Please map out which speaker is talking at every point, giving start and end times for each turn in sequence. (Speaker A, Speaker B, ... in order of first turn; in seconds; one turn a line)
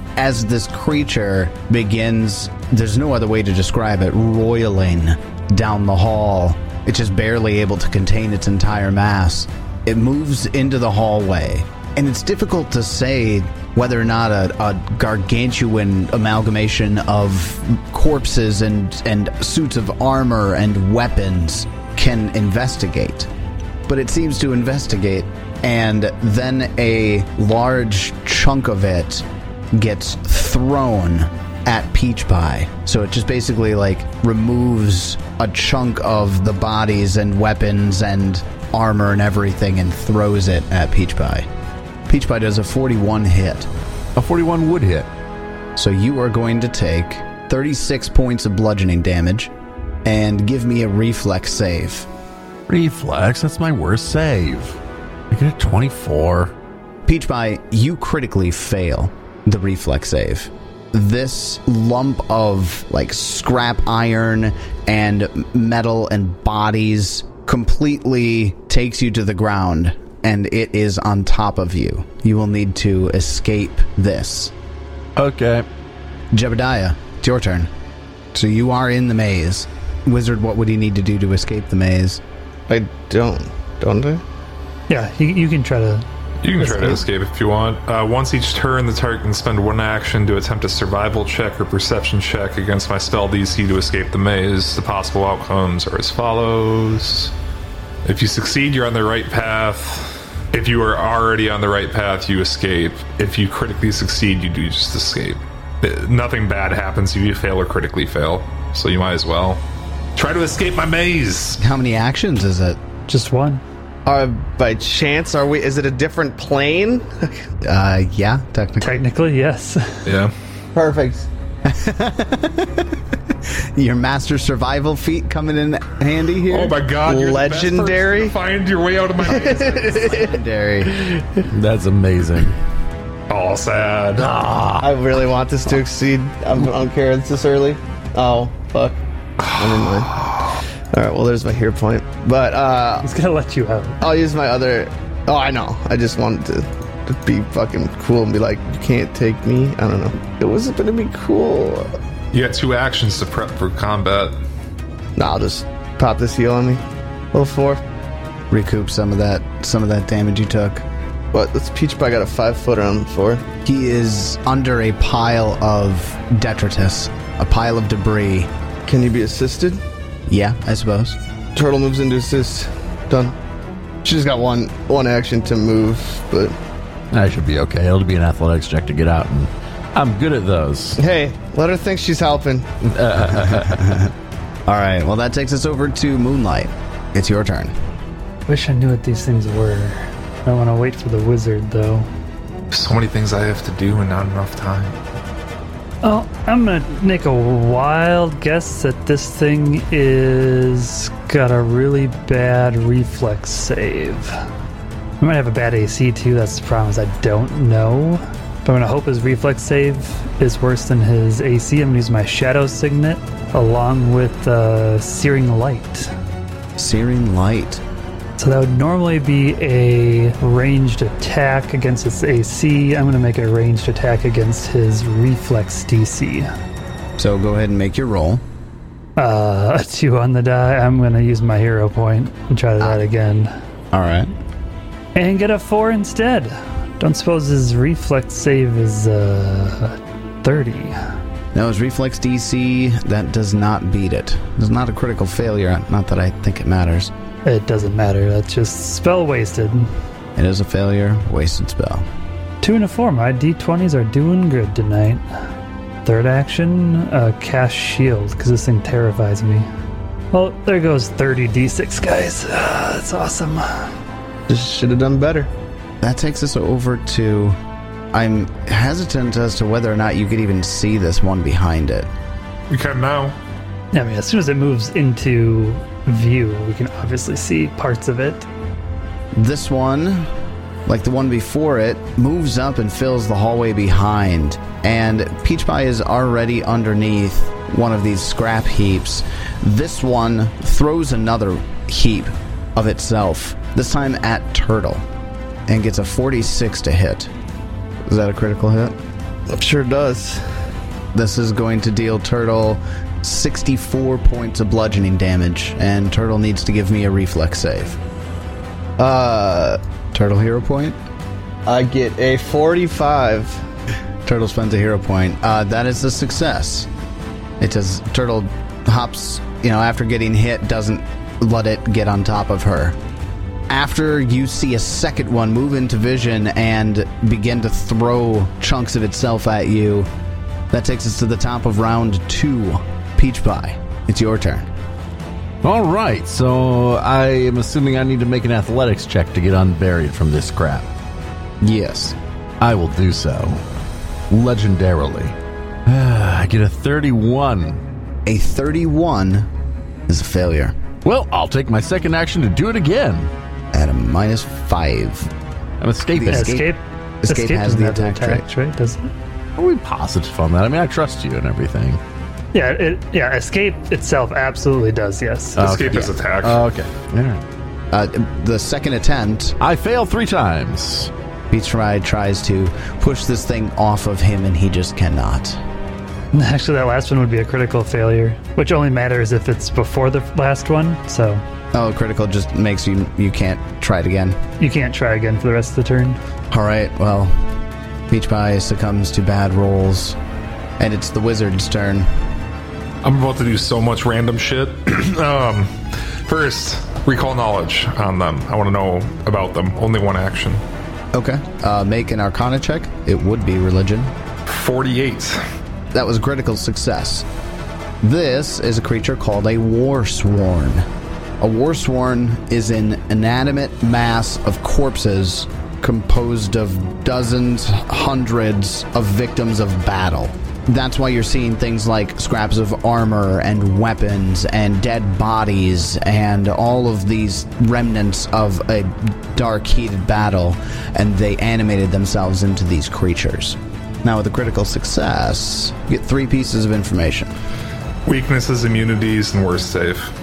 Speaker A: 0.2-23.3
Speaker A: 23.9-41.5
Speaker A: 42.1-43.7
Speaker B: 44.2-45.1
Speaker A: 45.8-49.5
Speaker A: 50.0-52.1
Speaker B: 52.7-54.8
Speaker B: 55.3-56.5
Speaker A: 57.1-74.5
Speaker B: 75.2-75.7
Speaker A: 76.3-77.7
Speaker A: 78.3-82.2
Speaker C: 82.7-84.2
Speaker D: 84.9-86.0
Speaker E: 86.4-97.3
Speaker D: 86.6-87.0
Speaker E: 98.0-109.6
Speaker E: 110.2-111.6
Speaker A: 111.6-112.8
Speaker D: 113.1-113.6
Speaker C: 114.1-117.5
Speaker A: 117.6-119.0
Speaker D: 118.8-120.1
Speaker E: 120.0-120.3
Speaker C: 120.8-121.3
Speaker A: 121.6-123.0
Speaker A: 123.5-126.8
Speaker E: 126.5-130.1
Speaker C: 127.0-128.3
Speaker C: 129.2-130.4
Speaker A: 129.3-131.0
Speaker C: 130.9-131.4
Speaker B: 131.5-132.6
Speaker E: 133.3-134.3
Speaker B: 134.2-134.9
Speaker C: 134.8-139.0
Speaker E: 139.4-140.6
Speaker C: 139.5-143.1
Speaker D: 143.0-144.0
Speaker C: 144.0-151.9
Speaker E: 152.3-154.3
Speaker C: 155.2-157.8
Speaker A: 158.5-160.8
Speaker C: 161.3-163.4
Speaker A: 163.7-168.5
Speaker C: 168.9-169.8
Speaker A: 170.3-171.2
Speaker C: 171.6-173.3
Speaker C: 174.0-176.6
Speaker B: 177.1-181.0
Speaker C: 181.0-182.7
Speaker B: 182.8-184.1
Speaker A: 183.8-184.1
Speaker A: 184.7-187.7
Speaker D: 188.5-192.1
Speaker E: 192.7-195.0
Speaker D: 196.0-204.4
Speaker D: 205.2-216.1
Speaker A: 216.8-217.8
Speaker D: 218.4-226.5
Speaker A: 227.2-228.4
Speaker D: 229.2-233.5
Speaker A: 233.9-234.3
Speaker D: 235.2-241.0
Speaker A: 241.5-247.1
Speaker D: 247.4-249.9
Speaker A: 250.4-252.1
Speaker D: 252.6-255.2
Speaker D: 256.0-259.7
Speaker D: 260.3-263.9
Speaker C: 264.5-265.5
Speaker A: 266.0-267.6
Speaker A: 268.1-272.1
Speaker E: 272.7-273.4
Speaker D: 273.9-278.5
Speaker A: 279.3-280.3
Speaker A: 280.9-295.0
Speaker A: 295.7-297.3
Speaker A: 298.1-299.0
Speaker C: 299.5-300.5
Speaker A: 301.1-308.0
Speaker C: 309.0-309.8
Speaker A: 310.1-311.0
Speaker C: 311.7-313.6
Speaker A: 314.2-316.9
Speaker A: 317.6-323.0
Speaker A: 323.7-330.1
Speaker A: 330.7-334.7
Speaker B: 335.6-340.9
Speaker A: 341.6-342.2
Speaker B: 342.6-343.6
Speaker B: 344.3-347.8
Speaker A: 348.3-349.5
Speaker A: 350.1-350.8
Speaker B: 351.0-353.3
Speaker A: 353.7-355.3
Speaker B: 355.8-356.5
Speaker A: 356.1-356.7
Speaker D: 356.3-359.1
Speaker A: 357.2-358.4
Speaker B: 359.6-362.0
Speaker D: 362.5-365.6
Speaker B: 365.6-367.4
Speaker E: 365.6-366.6
Speaker A: 367.9-369.6
Speaker B: 369.6-371.1
Speaker A: 371.5-375.6
Speaker D: 376.3-381.4
Speaker A: 381.7-384.4
Speaker D: 384.6-386.2
Speaker A: 386.5-387.3
Speaker A: 388.1-390.2
Speaker A: 390.8-392.1
Speaker E: 393.0-395.7
Speaker E: 396.3-400.6
Speaker A: 401.1-404.1
Speaker E: 404.5-405.4
Speaker A: 405.9-407.3
Speaker A: 408.0-410.9
Speaker A: 411.4-437.3
Speaker E: 438.1-440.1